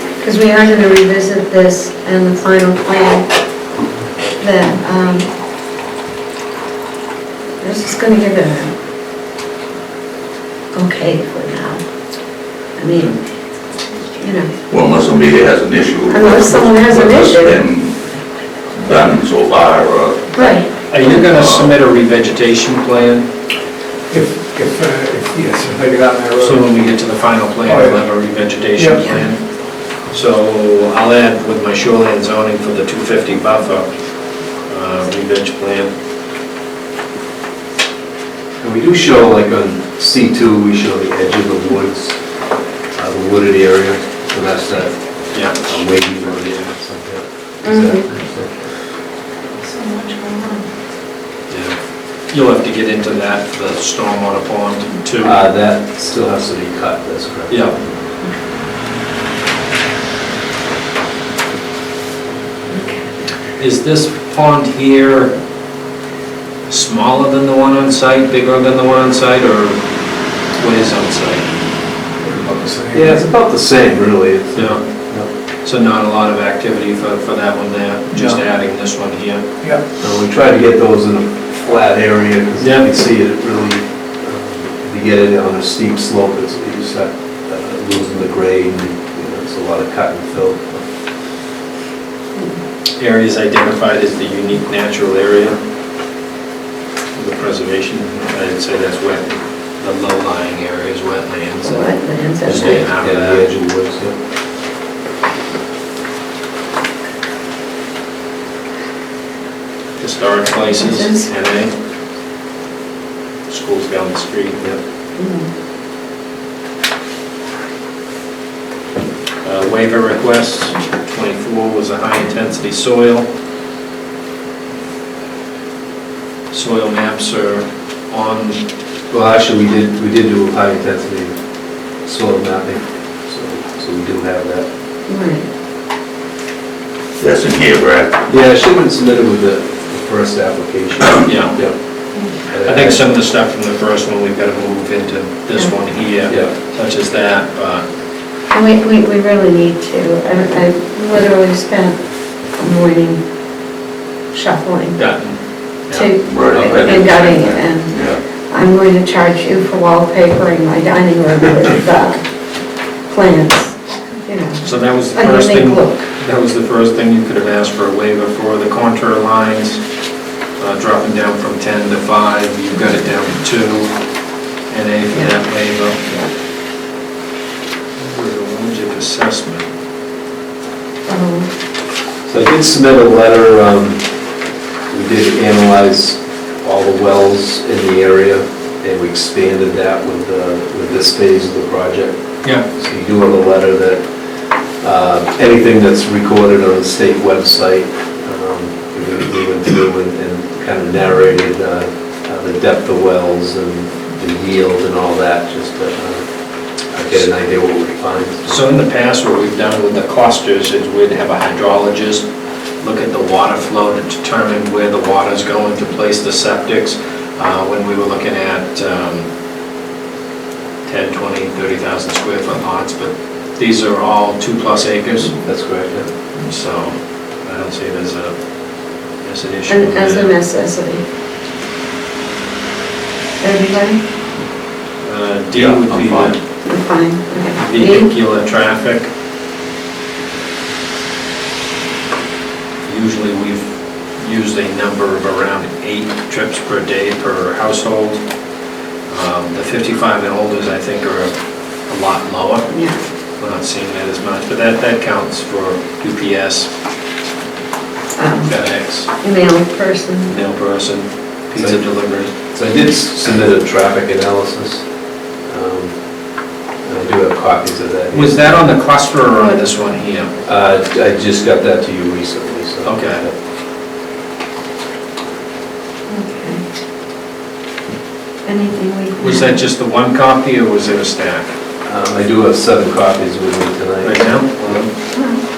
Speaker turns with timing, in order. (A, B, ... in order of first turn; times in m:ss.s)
0:00.2-0:03.2 A
0:04.4-0:05.3 A
0:07.6-0:08.7 A
0:10.7-0:11.8 A
0:12.8-0:13.2 A
0:14.2-0:14.5 A
0:14.7-0:17.9 B
0:16.1-0:17.6 A
0:18.7-0:20.3 B
0:20.4-0:20.7 A
0:20.9-0:23.2 C
0:21.0-0:21.7 B
0:24.1-0:26.7 D
0:26.4-0:29.4 C
0:27.6-0:28.0 D
0:28.8-0:29.0 D
0:30.1-0:33.9 C
0:34.6-0:35.9 C
0:38.6-0:42.2 E
0:42.9-0:45.0 E
0:45.5-0:48.5 E
0:47.6-0:48.1 A
0:49.6-0:50.7 A
0:51.5-0:51.7 C
0:52.3-0:55.4 C
0:55.2-0:57.7 E
0:57.5-0:57.8 C
1:03.6-1:05.3 C
1:06.7-1:09.8 C
1:10.5-1:11.4 C
1:12.2-1:13.2 D
1:12.9-1:15.3 E
1:14.5-1:14.8 C
1:15.6-1:19.4 C
1:18.1-1:18.4 D
1:20.0-1:30.8 E
1:22.6-1:22.8 C
1:33.0-1:35.6 C
1:37.2-1:41.9 C
1:41.6-1:42.8 A
1:42.4-1:43.5 C
1:43.0-1:44.1 E
1:50.0-1:51.7 C
1:50.8-1:51.3 A
1:53.5-1:54.7 C
1:55.2-1:55.5 A
1:59.4-2:03.2 C
2:06.5-2:08.6 C
2:09.1-2:11.4 E
2:12.0-2:14.7 E
2:15.1-2:15.4 A
2:17.2-2:18.2 B
2:18.3-2:21.7 E
2:21.2-2:21.6 C
2:22.5-2:23.0 E
2:22.6-2:27.8 C
2:28.5-2:32.0 A
2:32.6-2:33.2 A
2:34.3-2:35.0 A
2:35.0-2:35.4 C
2:35.9-2:42.2 A
2:36.2-2:38.2 B
2:43.1-2:43.7 A
2:44.2-2:46.0 A
2:44.6-2:49.8 C
2:50.6-2:53.9 C
2:54.7-2:56.0 C
2:56.0-2:56.3 A
2:58.0-2:59.7 C
3:01.1-3:01.5 A
3:02.3-3:04.1 E
3:04.9-3:14.0 E
3:14.8-3:26.2 E
3:26.9-3:28.6 E
3:28.4-3:32.2 C
3:32.8-3:39.2 C
3:40.8-3:45.3 C
3:45.4-3:46.1 E
3:46.4-3:48.3 C
3:49.2-3:50.3 C
3:49.7-3:51.0 A
3:53.4-3:54.0 A
3:55.0-3:56.4 C
3:55.6-3:56.3 B
3:56.6-3:58.1 A
3:57.6-3:59.1 C
4:02.8-4:08.2 C
4:09.1-4:11.3 C
4:11.8-4:12.7 C
4:13.4-4:16.7 C
4:18.2-4:18.5 A
4:18.4-4:19.1 C
4:19.2-4:20.4 A
4:20.3-4:22.3 C
4:21.6-4:24.8 E
4:25.4-4:25.9 E
4:26.8-4:28.6 E
4:28.1-4:30.3 C
4:29.4-4:29.6 A
4:30.4-4:33.3 E
4:32.8-4:33.2 C
4:36.1-4:36.6 A
4:38.4-4:39.6 A
4:39.2-4:41.5 C
4:41.8-4:44.7 E
4:44.0-4:44.9 C